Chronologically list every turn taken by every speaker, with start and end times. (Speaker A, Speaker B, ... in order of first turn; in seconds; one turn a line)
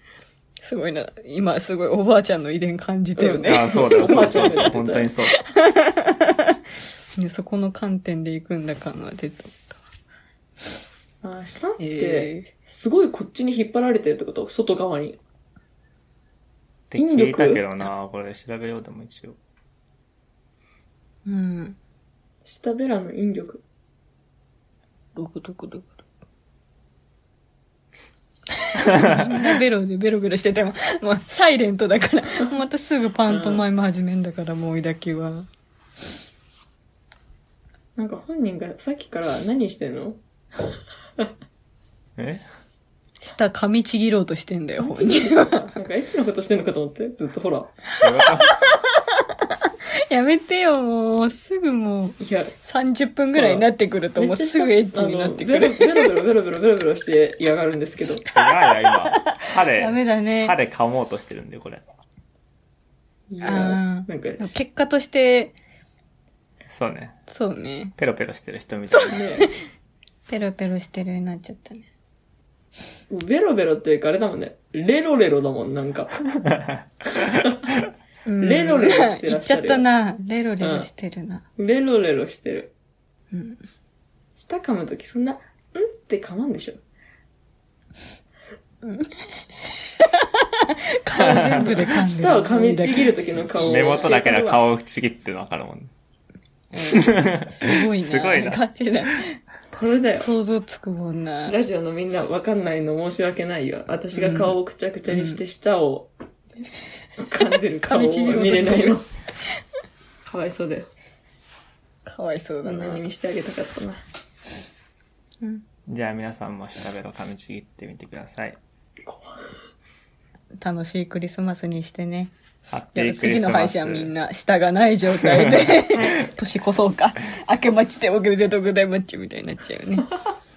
Speaker A: 0.6-6.6
Speaker B: 3.2-5.1
Speaker C: 3.4-5.4
Speaker A: 7.2-9.8
Speaker B: 11.2-15.2
Speaker A: 11.8-12.5
Speaker C: 16.9-19.4
Speaker B: 17.0-17.7
Speaker A: 21.2-21.8
Speaker B: 22.4-23.6
Speaker A: 25.1-26.0
Speaker A: 28.6-35.5
Speaker B: 33.3-33.6
Speaker B: 38.0-40.2
Speaker C: 42.2-42.4
Speaker A: 43.2-45.8
Speaker B: 44.8-47.7
Speaker A: 47.9-56.1
Speaker C: 48.0-48.6
Speaker B: 52.2-52.5
Speaker B: 53.3-58.2
Speaker C: 58.3-61.8
Speaker A: 58.8-60.5
Speaker B: 63.3-64.5
Speaker A: 63.4-65.5
Speaker C: 66.7-67.2
Speaker A: 67.3-67.9
Speaker C: 68.0-69.2
Speaker A: 68.9-69.5
Speaker B: 69.1-69.5
Speaker A: 70.3-71.9
Speaker B: 73.1-76.1
Speaker C: 76.3-76.8
Speaker B: 77.3-77.6
Speaker A: 78.2-81.4
Speaker B: 78.4-79.8
Speaker B: 80.6-80.9
Speaker B: 81.6-82.7
Speaker A: 83.3-83.6
Speaker B: 84.4-86.8
Speaker A: 88.8-89.5
Speaker A: 90.0-94.1
Speaker C: 91.2-91.7
Speaker B: 91.2-94.6
Speaker C: 93.6-95.9
Speaker A: 96.7-99.4
Speaker C: 96.9-98.6
Speaker B: 99.7-100.3
Speaker A: 100.1-101.5
Speaker B: 101.5-106.1
Speaker A: 104.1-104.5
Speaker A: 105.1-105.4
Speaker B: 107.2-109.0
Speaker A: 107.8-109.0
Speaker B: 110.2-110.9
Speaker A: 112.0-113.0
Speaker B: 112.6-114.0
Speaker C: 115.9-118.6
Speaker B: 119.0-119.4
Speaker A: 120.6-122.3
Speaker C: 122.7-124.1
Speaker A: 122.9-130.1
Speaker C: 125.3-125.7